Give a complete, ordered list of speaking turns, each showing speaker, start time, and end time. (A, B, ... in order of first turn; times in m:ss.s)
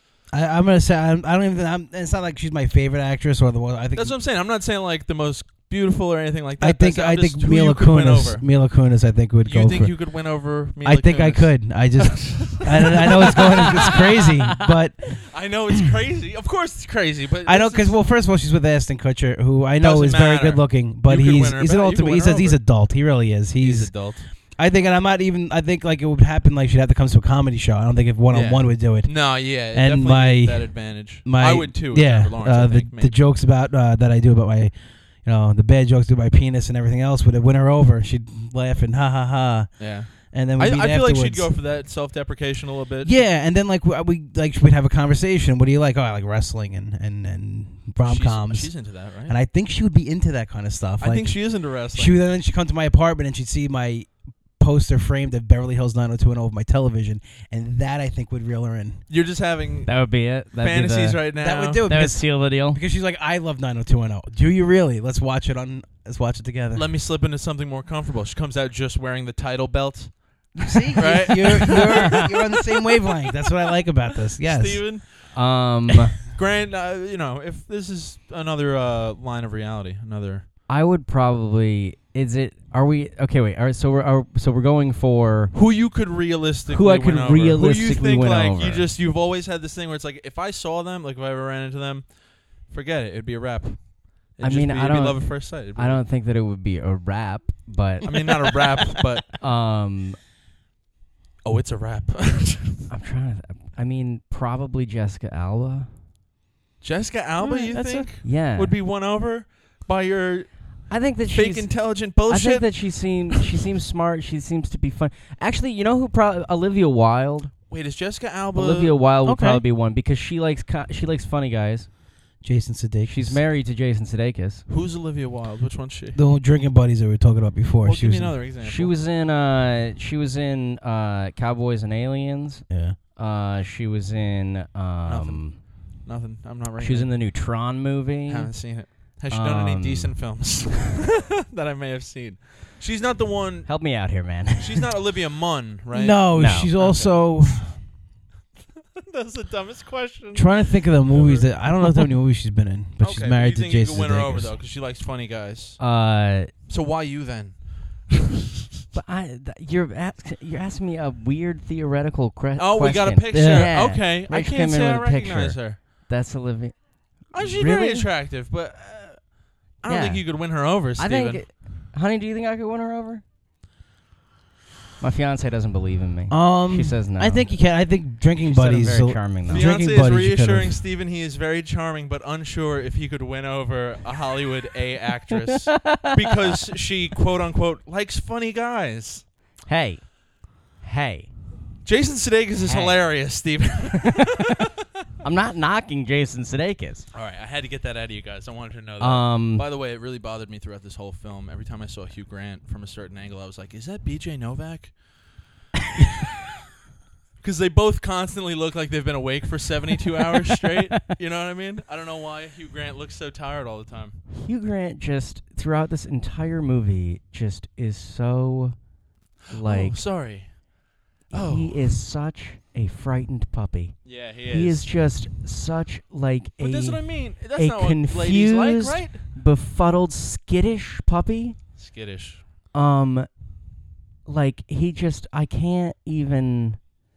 0:00.3-0:04.2 A
0:04.0-0:08.5 B
0:06.6-0:10.0 A
0:09.4-0:14.3 B
0:10.8-0:15.2 A
0:15.2-0:18.0 B
0:17.5-0:24.0 A
0:19.8-0:22.6 B
0:23.6-0:24.3 B
0:24.6-0:41.5 A
0:28.3-0:33.2 B
0:39.8-0:43.2 B
0:43.0-0:59.0 A
0:48.0-0:49.4 B
0:51.0-0:52.2 B
0:59.1-0:59.9 B
0:59.8-1:01.2 C
1:00.6-1:01.8 B
1:01.4-1:06.9 A
1:01.9-1:02.8 C
1:06.7-1:12.8 B
1:10.6-1:14.9 A
1:11.0-1:12.1 C
1:14.4-1:15.3 B
1:15.3-1:16.1 C
1:16.2-1:20.5 B
1:20.7-1:25.5 C
1:25.5-1:36.0 B
1:26.7-1:28.9 C
1:34.4-1:38.6 C
1:38.0-1:39.3 B
1:39.4-1:40.2 C
1:41.4-1:42.9 B
1:42.9-1:45.9 C
1:46.8-1:53.4 B
1:47.4-1:48.1 A
1:48.2-1:48.8 C
1:50.9-1:57.7 C
1:57.7-1:59.0 B
1:58.5-2:01.9 C
1:59.2-1:59.6 A
2:02.4-2:03.4 A
2:03.1-2:04.6 C
2:04.7-2:06.2 B
2:06.1-2:08.4 A
2:07.8-2:08.9 B
2:08.6-2:15.6 C
2:12.7-2:13.0 A
2:15.1-2:17.2 B
2:16.8-2:18.5 C
2:18.3-2:23.7 B
2:19.3-2:20.1 C
2:23.6-2:24.8 C
2:24.6-2:27.7 B
2:25.9-2:27.7 A
2:26.3-2:26.7 C
2:29.0-2:31.5 B
2:30.3-2:34.5 A
2:33.0-2:35.8 B
2:35.8-2:36.5 C
2:36.7-2:38.2 B
2:38.9-2:48.1 C
2:42.6-2:45.8 B
2:43.3-2:43.7 A
2:47.3-2:51.4 B
2:49.8-2:50.2 C
2:51.0-2:53.2 C
2:55.0-2:57.5 C
2:56.3-3:00.8 A
2:58.4-2:59.7 C
2:59.5-3:09.3 B
3:05.7-3:06.3 C
3:09.7-3:11.3 C
3:11.8-3:14.6 B
3:12.6-3:13.1 C
3:14.0-3:14.6 C
3:15.2-3:17.1 C
3:17.1-3:25.0 B
3:19.0-3:19.6 C
3:27.4-3:34.2 B
3:34.3-3:38.8 C
3:39.5-3:40.0 C
3:39.6-3:41.9 B
3:41.3-3:51.6 C
3:44.0-3:44.9 B
3:46.6-3:49.2 B
3:51.8-3:52.4 B
3:52.7-3:53.3 C
3:54.3-3:56.8 C